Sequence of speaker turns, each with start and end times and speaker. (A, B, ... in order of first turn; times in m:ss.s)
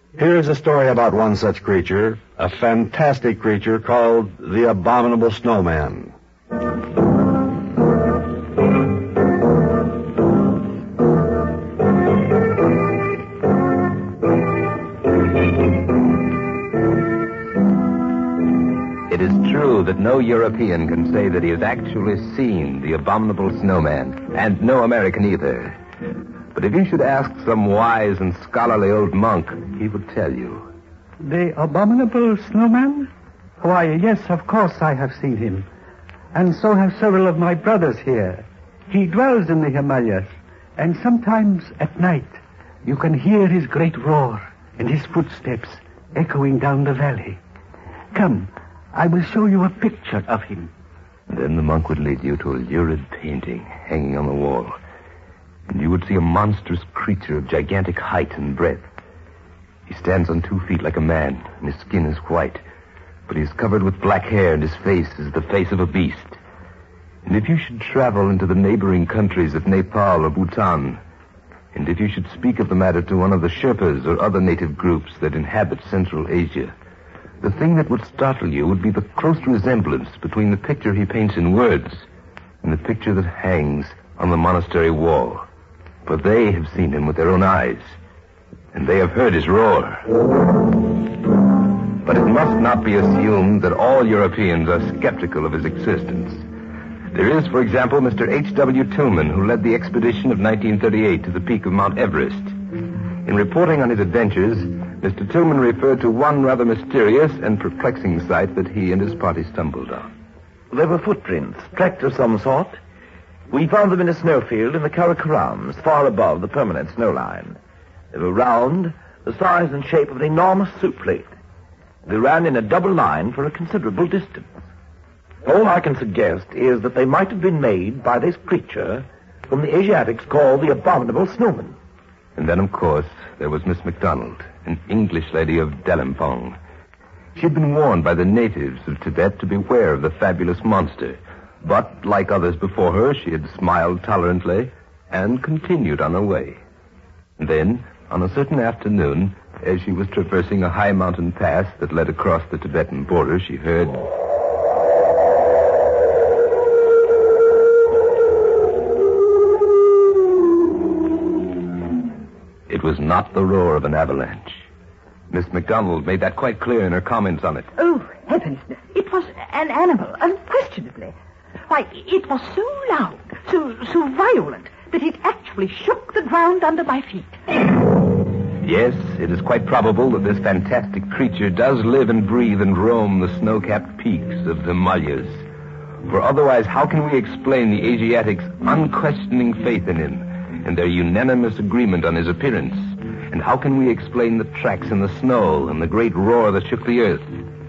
0:00.2-0:06.1 A
0:19.1-0:25.8 B
0:26.5-0:30.7 B
0:31.2-0:35.7 C
0:36.3-0:47.4 C
0:48.1-0:50.7 C
0:51.3-0:54.8 B
0:55.7-0:58.8 B
0:59.9-1:02.6 B
1:03.3-1:06.4 B
1:07.3-1:11.0 B
1:11.7-1:16.7 B
1:17.4-1:22.0 B
1:22.6-1:25.4 B
1:26.1-1:27.9 B
1:28.7-1:30.0 B
1:32.0-1:36.4 B
1:37.1-1:42.6 B
1:43.2-1:50.1 B
1:50.7-1:52.8 D
1:53.5-1:57.6 D
1:58.1-2:01.3 D
2:02.1-2:04.5 D
2:05.4-2:11.8 D
2:12.4-2:16.6 B
2:17.4-2:26.6 B
2:27.4-2:34.1 B
2:42.7-2:44.6 B
2:45.3-2:47.7 B
2:47.8-2:51.2 E
2:51.7-2:57.4 E
2:58.6-3:05.4 B
3:06.0-3:17.3 B